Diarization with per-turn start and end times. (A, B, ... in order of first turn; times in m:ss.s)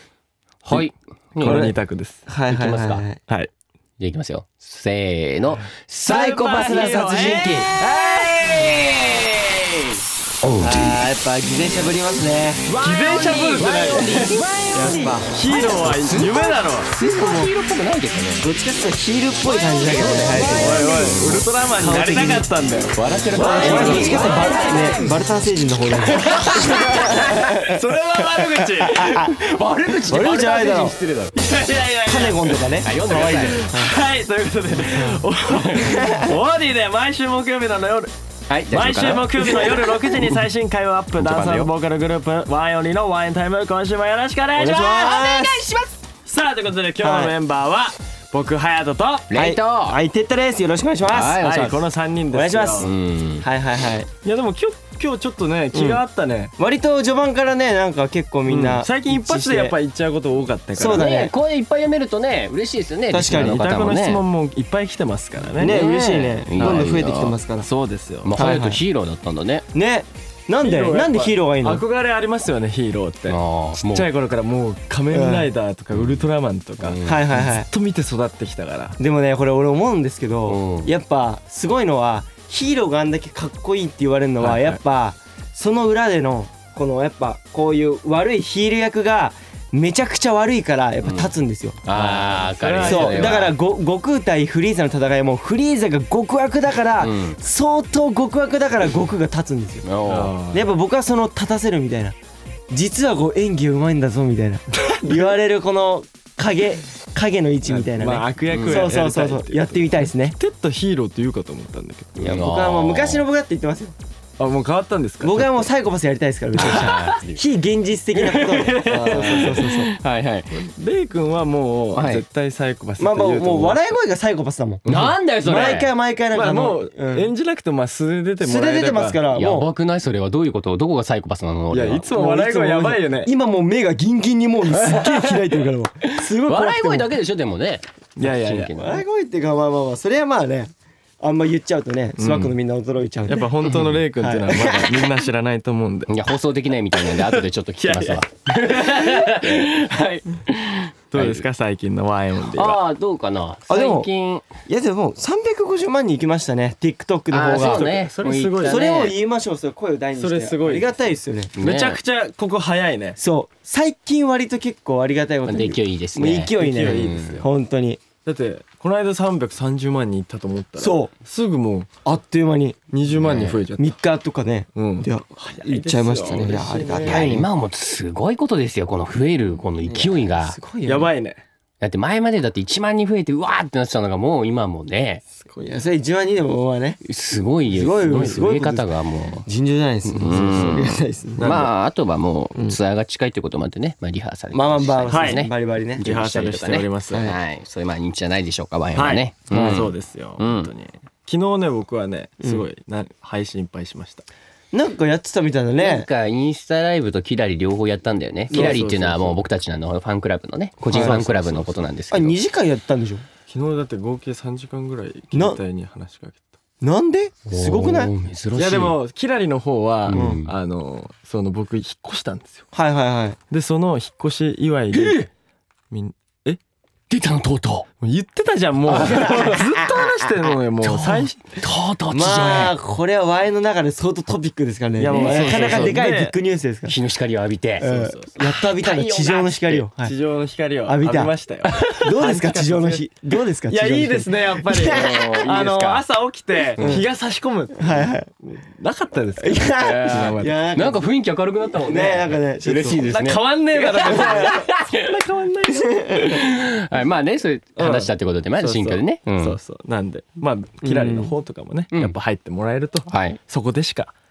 0:00.6-0:01.7 A
0:01.4-0:02.2 B
0:01.4-0:03.2 C
0:02.5-0:03.0 A
0:04.0-0:11.0 A
0:06.0-0:07.7 C
0:06.1-0:07.6 B
0:10.6-0:12.7 C
0:12.6-0:18.5 A
0:12.8-0:14.4 B
0:13.9-0:15.6 C
0:15.3-0:16.9 B
0:16.9-0:17.5 C
0:18.4-0:21.1 C
0:19.8-0:21.4 A
0:20.5-0:24.5 B
0:21.8-0:22.5 C
0:22.9-0:25.1 A
0:23.3-0:27.8 C
0:26.2-0:27.6 A
0:26.2-0:29.3 B
0:28.3-0:29.4 C
0:29.0-0:31.4 A
0:30.1-0:30.9 C
0:31.3-0:38.1 B
0:32.0-0:32.9 C
0:32.8-0:33.7 A
0:35.5-0:36.1 A
0:35.8-0:36.3 C
0:38.5-0:40.3 A
0:38.7-0:45.2 B
0:41.2-0:41.7 A
0:44.6-0:45.6 C
0:44.6-0:46.0 A
0:46.2-0:49.3 B
0:47.0-0:47.3 C
0:49.3-0:50.0 A
0:49.3-0:51.5 C
0:51.1-0:51.8 A
0:51.4-0:52.9 B
0:52.3-0:52.9 C
0:52.8-0:53.5 A
0:53.4-0:54.1 C
0:54.2-0:56.5 B
0:55.7-0:56.0 C
0:56.6-0:59.8 C
0:58.5-1:01.1 B
1:00.7-1:01.3 C
1:00.8-1:04.2 A
1:03.1-1:03.6 C
1:03.3-1:05.8 B
1:05.6-1:07.7 C
1:05.6-1:07.4 A
1:07.6-1:08.4 B
1:08.2-1:09.6 A
1:08.4-1:08.8 C
1:09.7-1:11.8 C
1:10.6-1:13.4 B
1:13.3-1:14.1 A
1:13.9-1:19.0 B
1:15.1-1:15.5 C
1:16.8-1:17.2 A
1:17.0-1:17.7 C
1:19.0-1:31.8 C
1:20.5-1:20.9 A
1:24.4-1:24.8 B
1:31.0-1:31.3 A
1:31.8-1:33.5 A
1:31.9-1:33.4 B
1:32.8-1:39.8 C
1:37.0-1:37.4 A
1:39.8-1:40.3 A
1:40.1-1:40.6 B
1:40.5-1:42.2 C
1:42.7-1:50.4 C
1:44.8-1:45.2 B
1:47.7-1:52.2 B
1:48.5-1:48.9 A
1:52.2-1:53.2 A
1:52.2-1:54.0 C
1:54.4-1:55.7 B
1:55.2-1:59.9 C
1:56.6-1:57.2 B
1:56.6-1:57.4 A
1:58.2-2:00.5 A
1:58.3-1:59.7 B
2:00.5-2:03.8 B
2:01.9-2:02.2 A
2:03.0-2:07.3 C
2:04.8-2:05.9 A
2:06.3-2:09.2 B
2:08.4-2:09.7 C
2:09.3-2:12.1 A
2:11.7-2:13.3 B
2:12.1-2:17.1 C
2:14.8-2:15.4 A
2:16.0-2:19.0 A
2:18.2-2:18.8 B
2:18.8-2:23.5 C
2:22.2-2:22.5 B
2:23.3-2:26.1 B
2:24.2-2:25.1 C
2:26.1-2:31.4 A
2:27.0-2:29.7 B
2:31.1-2:32.8 B
2:32.4-2:34.4 A
2:33.7-2:34.1 C
2:34.6-2:38.1 C
2:37.3-2:39.1 A
2:37.6-2:38.8 B
2:38.6-2:41.5 C
2:40.2-2:40.9 B
2:41.6-2:42.0 A
2:41.6-2:43.2 B
2:43.2-2:48.0 C
2:45.4-2:47.4 A
2:46.5-2:47.5 B
2:48.2-2:51.9 B
2:50.8-2:51.1 C
2:52.0-2:52.8 C
2:52.9-2:53.9 B
2:53.1-2:53.6 A
2:53.8-2:57.5 C
2:54.8-2:57.3 B
2:57.0-3:00.6 A
2:59.8-3:01.1 C
3:00.8-3:01.4 B
3:01.8-3:05.2 A
3:05.5-3:07.0 C
3:07.0-3:09.5 A
3:07.7-3:08.9 C
3:09.4-3:11.7 C
3:10.1-3:20.7 A
3:11.4-3:11.7 B
3:14.5-3:16.0 C
3:15.1-3:17.3 B
3:18.9-3:24.2 B
3:19.5-3:19.8 C
3:24.7-3:26.1 C
3:25.8-3:32.4 A
3:28.5-3:28.8 C
3:28.5-3:29.4 B
3:30.9-3:31.8 B
3:30.9-3:31.2 C
3:32.1-3:33.2 C
3:33.5-3:36.4 B
3:35.3-3:35.6 C
3:36.8-3:38.1 C
3:37.5-3:39.0 A
3:38.5-3:42.6 B
3:40.1-3:40.5 A
3:40.1-3:40.4 C
3:42.7-3:43.4 C
3:43.5-3:45.3 B
3:44.9-3:45.3 A
3:45.9-3:46.6 B
3:47.1-3:47.9 A
3:48.0-3:51.6 B
3:48.9-3:50.1 A
3:49.0-3:49.7 C
3:50.8-3:52.8 A
3:52.1-3:57.0 C
3:55.0-3:56.3 B
3:55.1-3:56.0 A
3:56.8-3:57.9 A
3:57.8-4:00.2 C
3:57.8-3:58.4 B
3:58.4-3:59.5 A
3:59.5-4:10.5 B
4:00.8-4:05.4 C
4:04.8-4:06.0 A
4:06.8-4:07.0 C
4:07.8-4:08.3 C
4:09.4-4:11.0 C
4:09.8-4:15.1 A
4:11.8-4:13.1 C
4:13.0-4:16.1 B
4:13.8-4:14.6 C
4:15.7-4:16.4 C
4:16.1-4:19.6 A
4:17.8-4:24.1 B
4:20.8-4:21.3 C
4:23.1-4:23.4 A